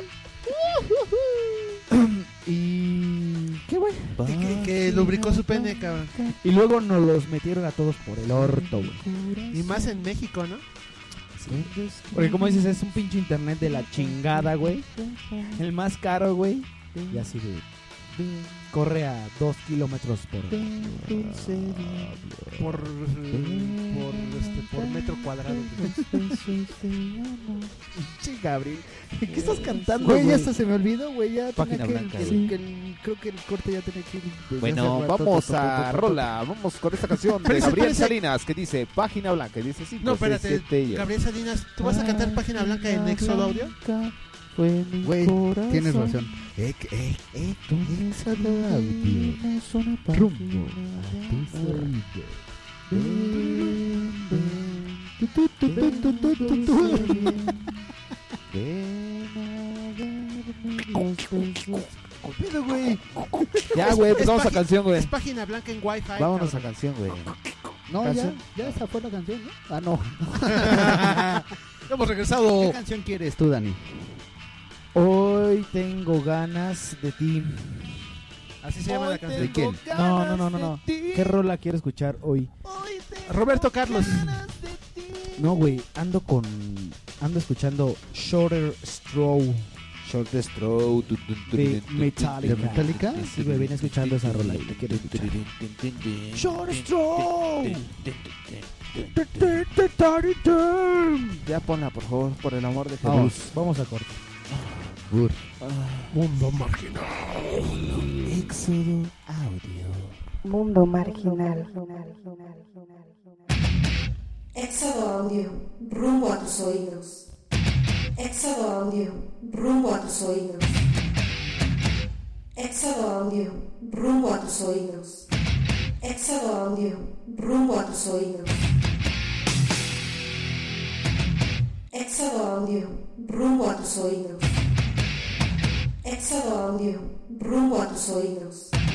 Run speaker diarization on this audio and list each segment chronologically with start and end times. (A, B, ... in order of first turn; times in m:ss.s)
0:01.9-0:04.0 A
0:04.2-0:06.4 B
0:04.2-0:06.1 C
0:06.4-0:09.0 A
0:08.3-0:10.0 B
0:09.5-0:10.6 C
0:11.4-0:14.8 A
0:11.4-0:12.9 B
0:13.6-0:15.6 B
0:15.6-0:17.6 A
0:16.9-0:17.3 B
0:18.2-0:18.7 B
0:18.7-0:20.9 A
0:20.5-0:27.8 B
0:21.2-0:22.1 D
0:22.6-0:26.0 C
0:28.2-0:30.5 A
0:29.3-0:30.4 B
0:29.3-0:36.3 D
0:31.6-0:32.5 B
0:32.2-0:32.5 A
0:34.6-0:41.1 B
0:37.4-0:38.0 C
0:37.5-0:38.1 A
0:40.0-0:43.7 C
0:41.8-0:46.5 B
0:45.0-0:49.4 D
0:47.7-0:52.0 B
0:50.1-0:52.1 D
0:52.9-0:54.8 D
0:52.9-0:57.8 B
0:55.6-0:57.5 D
0:58.5-1:05.1 B
1:03.7-1:06.7 C
1:06.2-1:07.4 B
1:07.9-1:11.4 D
1:08.0-1:08.7 B
1:10.5-1:12.8 C
1:12.6-1:14.0 D
1:14.9-1:17.8 A
1:18.6-1:19.6 C
1:18.8-1:21.4 B
1:19.3-1:19.8 D
1:19.9-1:22.5 A
1:22.6-1:25.5 B
1:23.3-1:24.4 C
1:25.4-1:29.7 A
1:30.0-1:39.7 B
1:31.5-1:35.4 A
1:32.4-1:33.2 D
1:36.3-1:37.8 A
1:39.1-1:41.3 A
1:41.4-1:43.5 B
1:43.0-1:43.4 D
1:43.5-1:44.2 A
1:45.1-1:45.4 D
1:45.6-1:46.2 B
1:46.1-1:47.7 C
1:47.6-1:50.2 B
1:50.4-1:53.3 E
1:54.5-1:57.3 F
1:58.1-2:00.8 F
2:02.5-2:05.3 F
2:06.0-2:08.7 F
2:11.9-2:14.5 F
2:16.0-2:18.7 F